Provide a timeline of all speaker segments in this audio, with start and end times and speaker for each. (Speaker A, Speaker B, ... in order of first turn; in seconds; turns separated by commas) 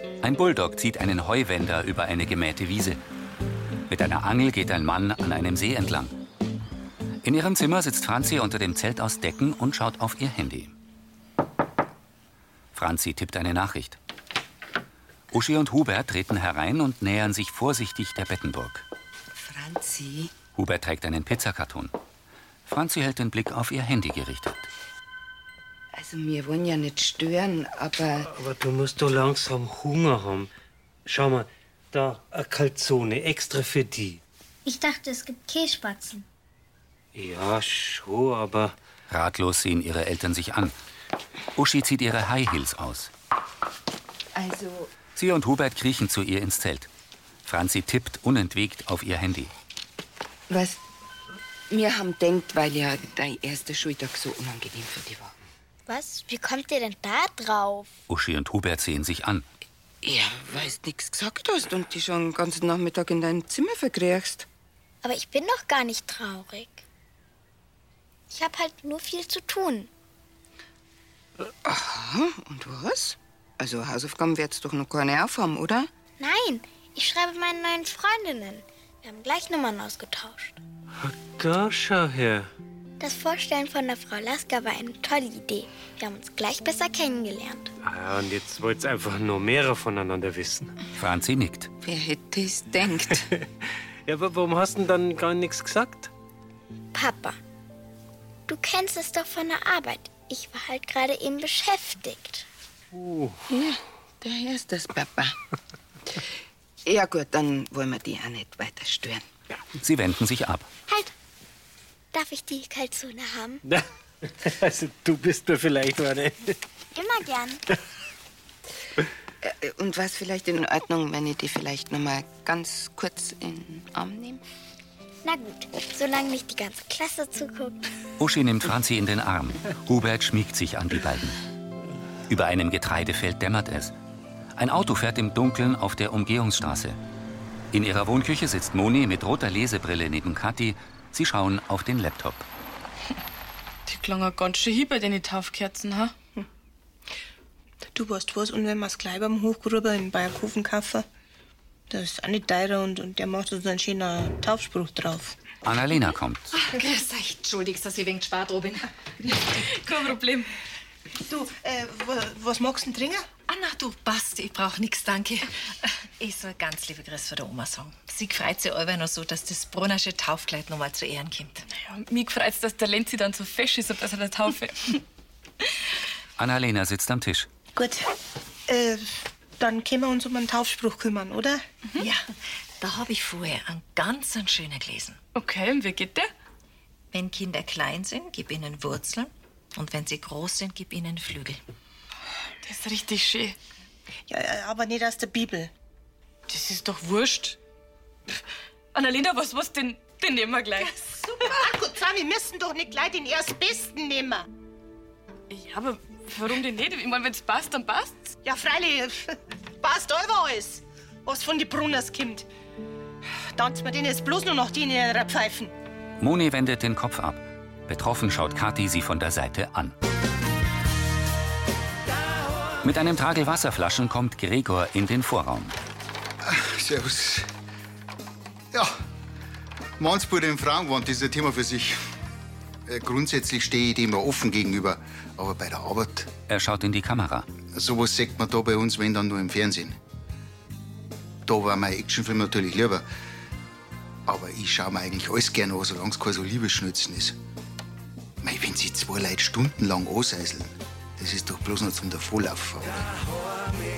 Speaker A: 0.2-3.0, Speaker A: 3.9-6.1, Speaker A: 7.2-10.7, Speaker A: 12.7-14.0, Speaker A: 15.3-18.8, Speaker B: 19.4-20.3, Speaker A: 20.5-21.9, Speaker A: 22.6-24.7, Speaker B: 25.9-28.3, Speaker C: 28.3-30.5, Speaker C: 31.1-34.2, Speaker D: 34.6-36.2, Speaker C: 37.1-38.7, Speaker A: 39.1-40.7, Speaker A: 41.5-43.1, Speaker B: 44.3-44.9, Speaker A: 45.1-46.9, Speaker A: 47.4-49.5, Speaker B: 50.5-50.8, Speaker B: 51.7-55.3, Speaker D: 55.9-57.9, Speaker A: 58.1-59.5, Speaker B: 60.0-64.5, Speaker D: 65.0-66.8, Speaker D: 68.3-69.9, Speaker B: 71.6-75.9, Speaker D: 76.2-80.6, Speaker C: 81.0-82.5, Speaker D: 83.0-87.7, Speaker C: 87.8-90.7, Speaker A: 91.0-91.7, Speaker B: 91.8-93.3, Speaker C: 94.0-96.1, Speaker D: 96.9-97.4, Speaker D: 98.5-102.4, Speaker C: 102.9-103.4, Speaker B: 103.5-105.4, Speaker B: 106.8-109.2, Speaker A: 109.8-110.7, Speaker D: 112.1-113.6, Speaker C: 113.6-116.5, Speaker D: 116.9-117.6, Speaker B: 119.4-124.4, Speaker D: 125.2-127.9, Speaker A: 128.2-131.4, Speaker A: 132.3-133.9, Speaker A: 134.6-137.0, Speaker A: 137.7-142.4, Speaker E: 143.8-146.1, Speaker F: 147.9-151.1, Speaker F: 151.9-155.3, Speaker A: 155.6-156.5, Speaker G: 156.6-158.9, Speaker E: 159.5-160.5, Speaker F: 161.3-163.2, Speaker G: 163.5-165.5, Speaker G: 166.2-171.6, Speaker E: 171.7-175.0, Speaker A: 176.4-177.5, Speaker F: 177.8-178.1, Speaker F: 178.7-181.6, Speaker G: 182.0-182.3, Speaker G: 182.8-185.2, Speaker E: 185.3-186.3, Speaker G: 187.1-191.6, Speaker E: 192.6-193.6, Speaker F: 194.3-195.7, Speaker E: 196.5-197.6, Speaker E: 198.9-201.6, Speaker F: 201.4-204.5, Speaker E: 205.5-208.3, Speaker F: 208.4-212.4, Speaker F: 213.5-215.7, Speaker A: 216.2-219.9, Speaker A: 222.8-225.7, Speaker H: 226.4-227.5, Speaker H: 230.0-232.0, Speaker H: 232.9-236.3, Speaker A: 236.5-237.5, Speaker H: 237.7-240.0, Speaker H: 241.4-243.1, Speaker H: 244.2-247.4, Speaker H: 248.4-253.1